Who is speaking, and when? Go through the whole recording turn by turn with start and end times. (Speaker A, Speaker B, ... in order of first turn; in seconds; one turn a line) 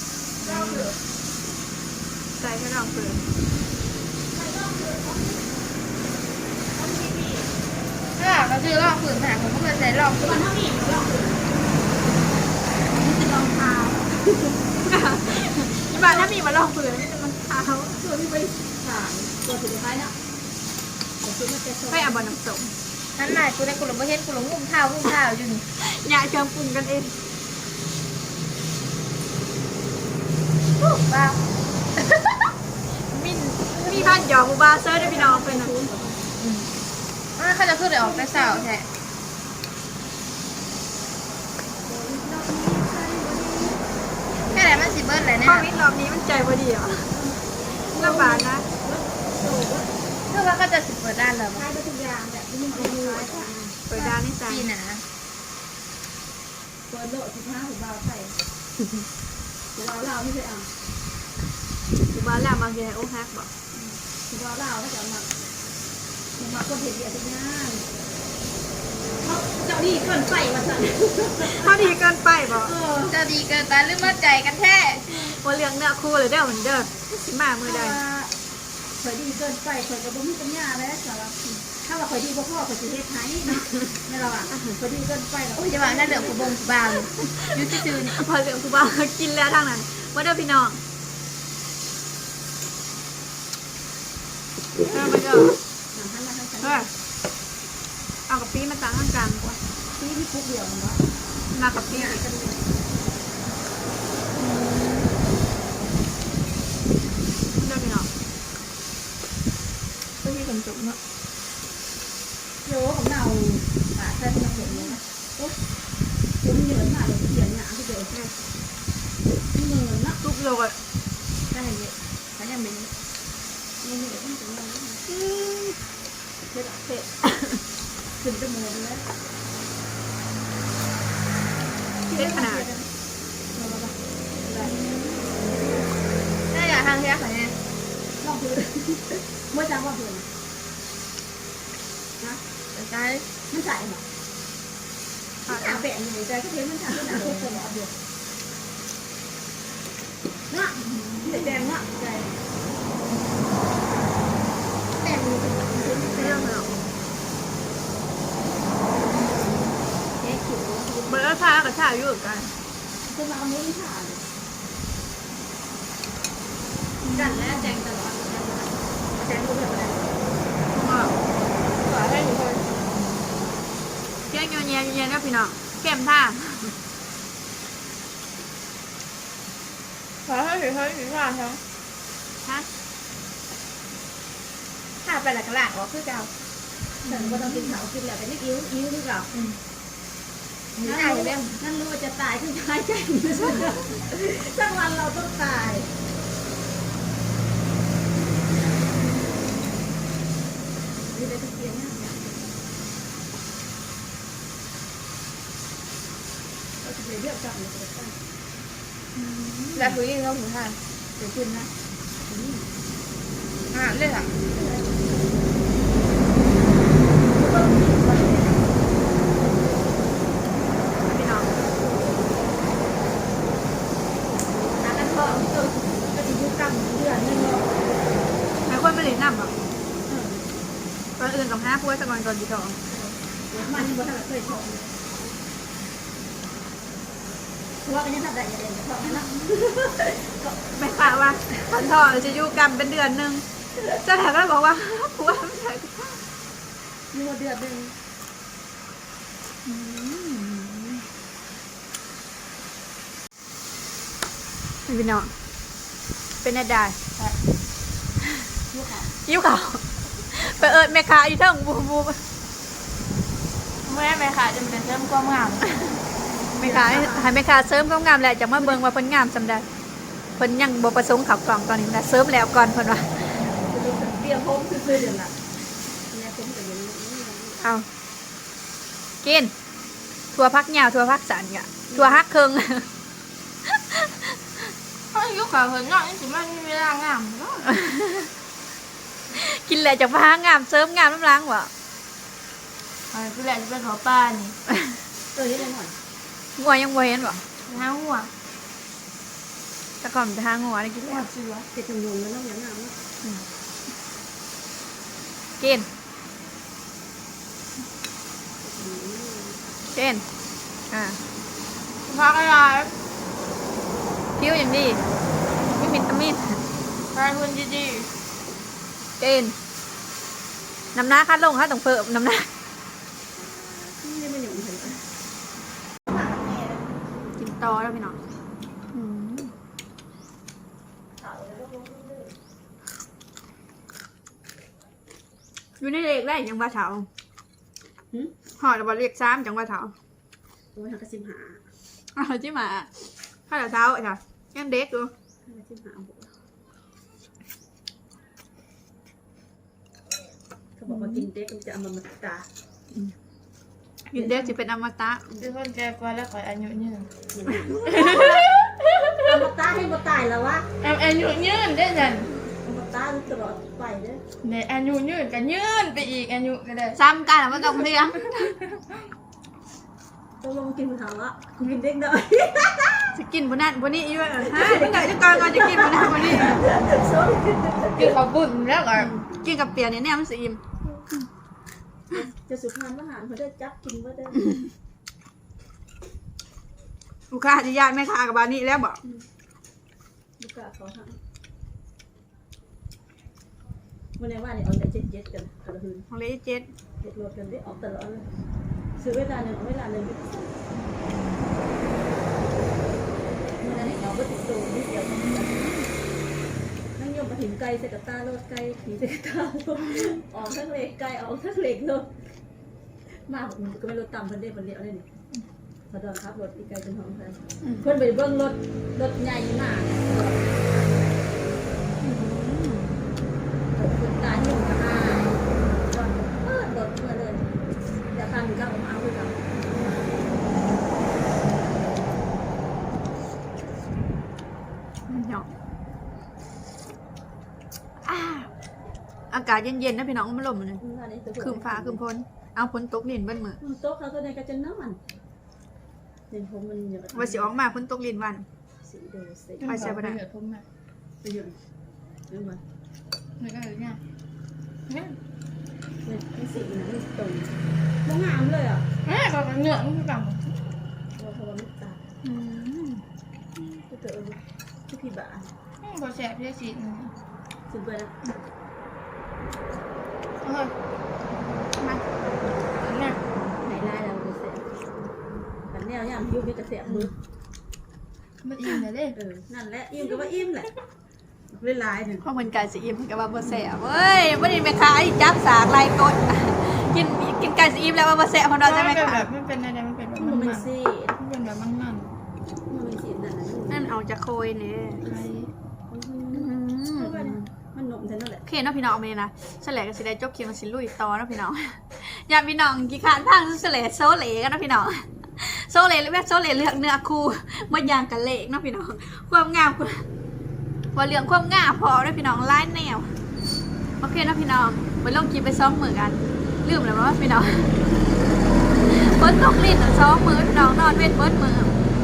Speaker A: 0.4-0.9
Speaker B: 0.4-1.0
Speaker A: 2.4-3.3
Speaker B: 4.3-5.5
Speaker B: 6.8-7.5
Speaker C: 8.2-10.4
Speaker B: 10.2-12.1
Speaker B: 13.0-14.9
Speaker A: 14.9-18.0
Speaker B: 16.0-16.3
Speaker B: 17.9-20.2
Speaker B: 21.2-22.4
Speaker A: 21.9-22.7
Speaker C: 23.2-25.6
Speaker A: 25.8-27.1
Speaker C: 30.8-31.4
Speaker C: 32.0-32.5
Speaker C: 33.1-33.6
Speaker B: 33.7-34.2
Speaker A: 33.8-35.7
Speaker B: 34.9-36.2
Speaker A: 36.4-36.7
Speaker C: 37.4-38.9
Speaker B: 38.0-38.7
Speaker B: 41.8-43.8
Speaker C: 44.5-45.7
Speaker A: 45.4-47.1
Speaker B: 47.1-49.9
Speaker A: 47.9-48.7
Speaker C: 50.3-51.7
Speaker B: 51.5-53.6
Speaker A: 52.7-54.7
Speaker C: 53.9-55.0
Speaker B: 56.9-58.4
Speaker B: 59.8-60.7
Speaker A: 62.1-63.5
Speaker B: 64.3-65.3
Speaker B: 66.4-67.8
Speaker B: 69.2-73.2
Speaker A: 71.4-72.7
Speaker C: 73.0-75.4
Speaker A: 75.1-78.0
Speaker B: 77.6-78.3
Speaker B: 79.0-86.6
Speaker C: 85.6-88.3
Speaker A: 87.2-90.8
Speaker A: 94.9-95.5
Speaker B: 95.9-96.9
Speaker A: 96.6-96.9
Speaker A: 98.3-99.6
Speaker B: 100.0-101.0
Speaker A: 101.5-102.2
Speaker B: 101.8-102.7
Speaker A: 104.7-105.0
Speaker A: 107.6-108.1
Speaker C: 110.2-111.0
Speaker B: 112.6-115.6
Speaker A: 114.5-115.0
Speaker B: 116.4-118.2
Speaker B: 119.5-120.2
Speaker A: 120.2-120.8
Speaker C: 121.5-122.9
Speaker B: 123.8-125.0
Speaker A: 125.1-125.8
Speaker B: 126.5-127.1
Speaker A: 127.3-127.6
Speaker B: 128.2-129.1
Speaker A: 132.1-132.7
Speaker C: 132.1-132.9
Speaker C: 133.5-133.9
Speaker B: 134.4-134.8
Speaker A: 134.6-135.3
Speaker B: 135.4-136.0
Speaker C: 136.5-137.6
Speaker B: 138.2-140.3
Speaker C: 142.7-143.3
Speaker B: 143.5-144.0
Speaker A: 145.5-145.9
Speaker B: 145.5-147.9
Speaker A: 147.0-147.5
Speaker B: 150.5-152.3
Speaker A: 150.8-151.7
Speaker C: 155.0-155.6
Speaker B: 155.6-156.6
Speaker A: 156.2-156.8
Speaker B: 160.2-161.3
Speaker A: 161.1-162.5
Speaker B: 163.0-164.2
Speaker A: 167.0-167.8
Speaker B: 167.1-170.1
Speaker A: 170.7-171.2
Speaker C: 171.8-172.7
Speaker A: 174.3-176.8
Speaker C: 180.2-181.6
Speaker C: 185.0-186.3
Speaker B: 187.1-189.3
Speaker C: 187.1-187.7
Speaker C: 189.3-189.6
Speaker C: 190.8-191.6
Speaker B: 190.8-195.9
Speaker B: 201.1-202.2
Speaker B: 206.8-208.2
Speaker A: 209.2-210.0
Speaker C: 209.7-210.8
Speaker B: 211.2-211.7
Speaker B: 212.3-212.7
Speaker C: 213.7-214.3
Speaker B: 214.5-215.3
Speaker B: 217.2-218.8
Speaker A: 221.1-221.5
Speaker B: 221.6-222.9
Speaker B: 224.6-228.0
Speaker A: 228.7-229.5
Speaker B: 230.1-230.5
Speaker A: 231.2-232.8
Speaker B: 232.9-234.9
Speaker B: 237.8-240.6
Speaker A: 240.7-246.2
Speaker B: 247.1-247.9
Speaker A: 249.7-251.0
Speaker A: 254.9-255.3
Speaker A: 256.4-257.0
Speaker B: 258.7-259.1
Speaker A: 259.3-262.2
Speaker B: 260.6-260.9
Speaker C: 263.9-265.6
Speaker B: 266.6-267.4
Speaker A: 266.6-269.7
Speaker A: 270.4-273.5
Speaker B: 273.6-275.3
Speaker B: 276.1-277.6
Speaker A: 277.6-277.9
Speaker A: 279.2-279.5
Speaker A: 280.3-282.9
Speaker B: 281.9-282.2
Speaker C: 285.1-287.7
Speaker A: 287.7-288.3
Speaker A: 289.3-291.7
Speaker C: 293.1-294.6
Speaker B: 295.3-296.0
Speaker A: 296.6-297.4
Speaker C: 297.7-298.3
Speaker A: 300.0-301.3
Speaker C: 301.1-301.7
Speaker B: 301.7-303.0
Speaker A: 305.6-305.9
Speaker B: 308.6-309.6
Speaker A: 309.9-310.2
Speaker A: 310.9-311.2
Speaker C: 312.1-312.9
Speaker A: 314.4-315.0
Speaker A: 315.6-316.6
Speaker C: 317.1-318.1
Speaker A: 319.2-319.6
Speaker A: 320.9-322.5
Speaker B: 323.4-325.0
Speaker B: 326.1-326.8
Speaker A: 327.4-328.2
Speaker A: 328.9-329.5
Speaker B: 331.2-332.4
Speaker A: 335.8-337.1
Speaker A: 338.6-339.9
Speaker B: 340.8-341.6
Speaker A: 342.1-345.1
Speaker B: 345.4-346.3
Speaker B: 350.8-352.5
Speaker A: 350.9-351.3
Speaker A: 354.1-355.2
Speaker C: 355.4-357.1
Speaker B: 357.3-357.8
Speaker A: 357.5-358.5
Speaker C: 357.9-359.4
Speaker B: 359.2-360.7
Speaker C: 360.8-362.3
Speaker B: 362.5-364.2
Speaker C: 364.4-367.0
Speaker A: 366.9-368.6
Speaker B: 370.4-373.2
Speaker A: 373.1-376.6
Speaker B: 374.4-378.2
Speaker C: 378.0-379.1
Speaker A: 379.0-380.6
Speaker B: 382.1-384.5
Speaker A: 387.3-389.0
Speaker B: 390.4-391.2
Speaker B: 394.2-396.1
Speaker A: 396.1-396.7
Speaker B: 397.0-398.3
Speaker B: 399.0-400.5
Speaker B: 403.6-405.7
Speaker A: 405.2-405.9
Speaker B: 407.0-412.1
Speaker B: 413.1-415.1
Speaker B: 415.9-420.5
Speaker A: 422.0-423.0
Speaker B: 423.7-427.5
Speaker B: 428.1-429.4
Speaker A: 435.1-435.5
Speaker A: 438.0-438.5
Speaker A: 439.3-440.8
Speaker B: 440.8-442.0
Speaker A: 441.4-443.6
Speaker B: 443.6-445.0
Speaker B: 446.3-447.5
Speaker A: 447.1-448.5
Speaker B: 448.8-450.0
Speaker C: 449.6-450.6
Speaker A: 449.6-450.2
Speaker B: 451.2-451.6
Speaker B: 452.3-452.6
Speaker C: 453.4-454.0
Speaker C: 454.9-455.2
Speaker B: 456.1-457.5
Speaker B: 458.1-458.9
Speaker C: 459.0-460.5
Speaker B: 461.2-462.0
Speaker A: 462.2-463.0
Speaker B: 463.6-465.5
Speaker C: 465.8-467.1
Speaker B: 467.7-468.2
Speaker C: 470.4-470.7
Speaker C: 471.4-471.7
Speaker A: 471.8-472.0
Speaker C: 472.8-473.2
Speaker B: 473.3-474.7
Speaker B: 475.7-477.1
Speaker C: 478.4-479.2
Speaker B: 479.1-480.7
Speaker B: 481.5-482.2
Speaker A: 482.2-489.3
Speaker C: 488.6-492.1
Speaker B: 490.2-491.2
Speaker B: 492.7-493.9
Speaker A: 493.7-495.0
Speaker C: 495.0-495.5
Speaker B: 495.9-498.4
Speaker A: 496.3-497.4
Speaker A: 498.4-510.1
Speaker A: 510.9-513.1
Speaker A: 514.0-517.8
Speaker A: 518.8-521.8